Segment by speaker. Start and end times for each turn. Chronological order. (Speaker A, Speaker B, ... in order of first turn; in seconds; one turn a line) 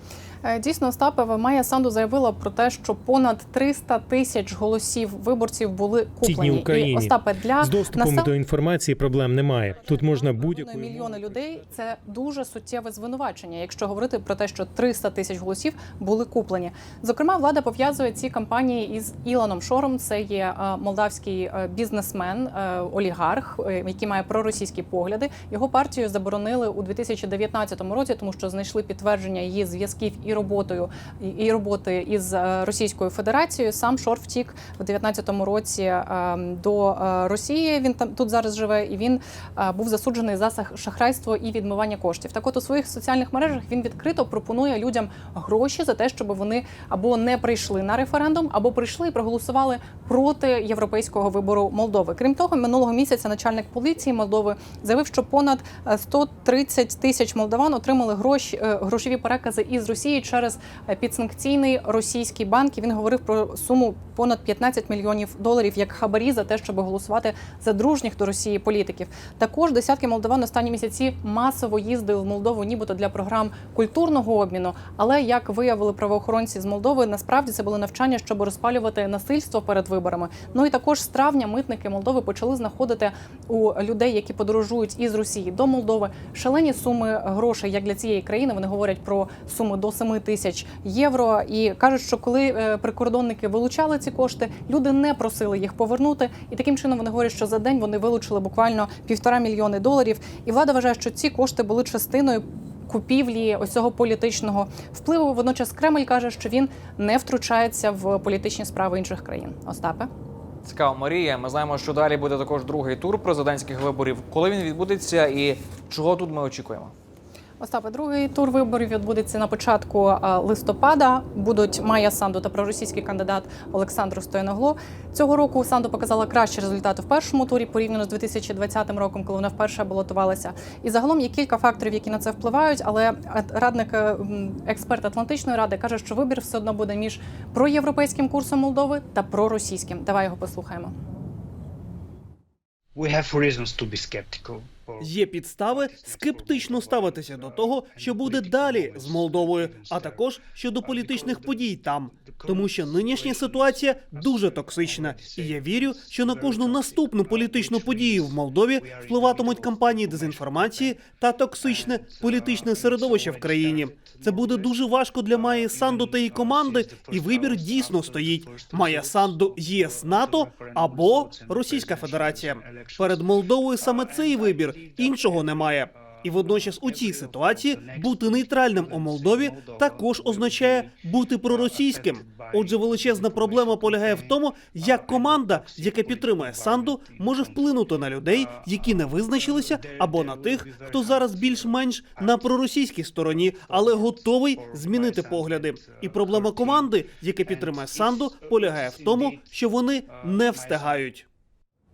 Speaker A: 0.5-8.3
Speaker B: 6.2-11.0
Speaker A: 10.3-110.1
Speaker C: 110.7-116.9
Speaker A: 117.6-140.9
Speaker D: 143.0-161.0
Speaker E: 145.0-201.2
Speaker D: 161.6-192.7
Speaker D: 193.2-201.1